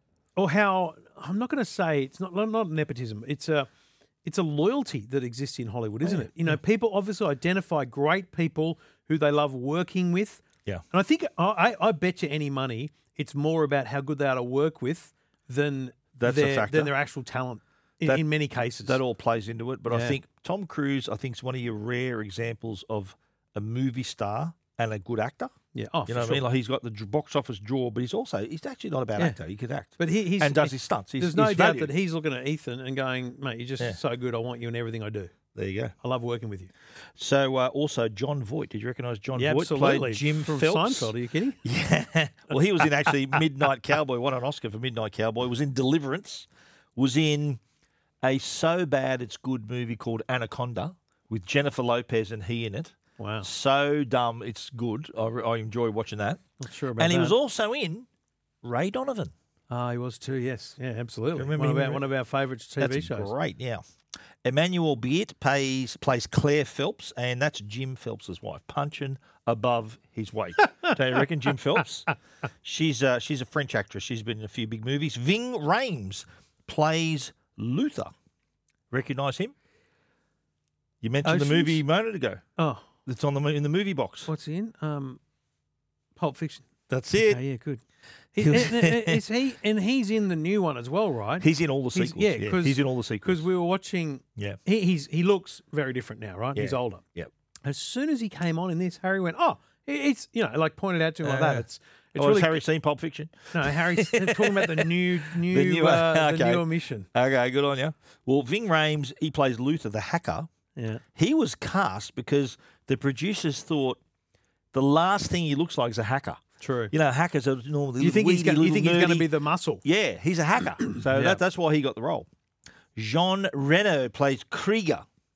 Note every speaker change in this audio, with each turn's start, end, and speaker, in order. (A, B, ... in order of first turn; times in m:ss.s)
0:00.4-0:03.7 A
0:04.2-0:19.0 A
0:06.0-0:06.6 B
0:16.2-0:16.9 B
0:18.8-0:25.5 B
0:19.9-0:20.2 A
0:25.7-0:26.5 A
0:26.1-0:31.9 B
0:30.0-0:35.3 A
0:35.5-0:36.0 B
0:36.0-0:36.7 A
0:37.2-0:47.6 B
0:39.4-0:41.6 A
0:48.2-0:56.4 B
0:53.2-0:53.5 A
0:56.6-0:57.4 A
0:57.0-0:58.1 B
0:58.6-0:59.3 B
0:59.7-1:03.3 A
1:01.4-1:02.1 B
1:02.8-1:03.8 B
1:04.4-1:12.1 B
1:12.6-1:18.1 B
1:18.9-1:19.6 B
1:21.0-1:22.4 B
1:21.2-1:21.8 A
1:22.6-1:22.9 A
1:23.1-1:24.3 B
1:24.2-1:25.2 A
1:26.2-1:27.8 A
1:26.9-1:27.4 B
1:28.4-1:37.0 A
1:28.4-1:29.2 B
1:31.4-1:33.4 B
1:36.6-1:37.3 B
1:37.6-1:42.6 A
1:41.2-1:50.5 B
1:43.5-1:47.1 A
1:50.8-1:51.0 A
1:51.1-1:54.0 B
1:54.7-1:59.3 B
1:56.6-1:56.9 A
1:58.0-1:59.8 A
1:59.8-2:02.3 B
2:01.0-2:01.4 A
2:03.0-2:05.1 B